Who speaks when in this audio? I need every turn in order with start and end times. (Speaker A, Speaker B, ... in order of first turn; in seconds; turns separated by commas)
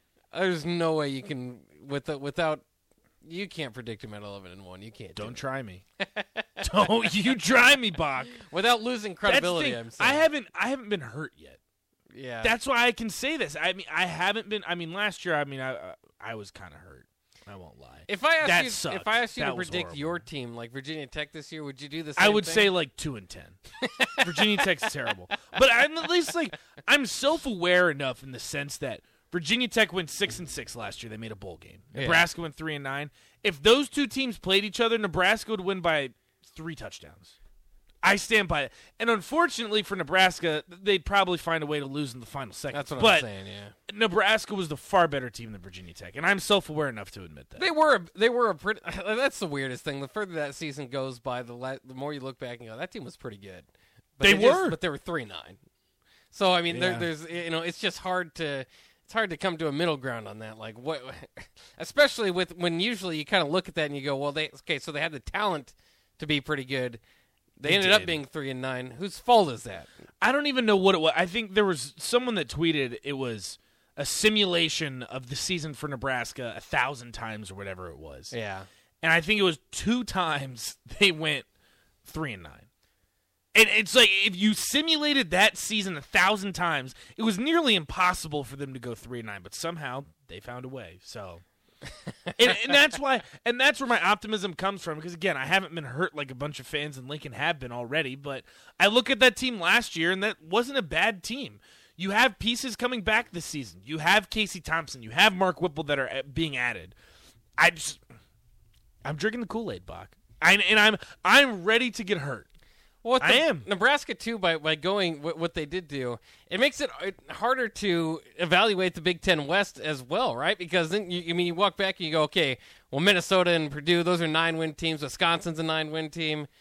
Speaker A: 0.3-2.6, Speaker A: 3.2-5.4, Speaker B: 5.2-5.8, Speaker A: 6.0-7.4, Speaker B: 6.6-8.4, Speaker A: 8.3-10.3, Speaker B: 9.2-11.6, Speaker A: 12.1-12.6, Speaker B: 12.4-20.2, Speaker A: 18.1-22.7, Speaker B: 22.2-23.6, Speaker A: 23.8-26.3, Speaker B: 24.2-37.3, Speaker A: 31.9-32.3, Speaker B: 38.0-43.3, Speaker A: 42.7-43.7, Speaker B: 43.9-47.7, Speaker A: 47.6-55.6, Speaker B: 54.2-54.8, Speaker A: 56.3-67.0, Speaker B: 56.7-57.1, Speaker A: 67.6-69.9, Speaker B: 67.6-68.2, Speaker B: 70.2-78.3, Speaker A: 78.3-78.7, Speaker B: 79.0-81.5, Speaker B: 82.1-82.7, Speaker B: 83.5-91.4, Speaker B: 92.4-107.0, Speaker B: 107.6-108.0, Speaker B: 109.0-112.5, Speaker A: 113.0-126.5, Speaker B: 113.2-113.7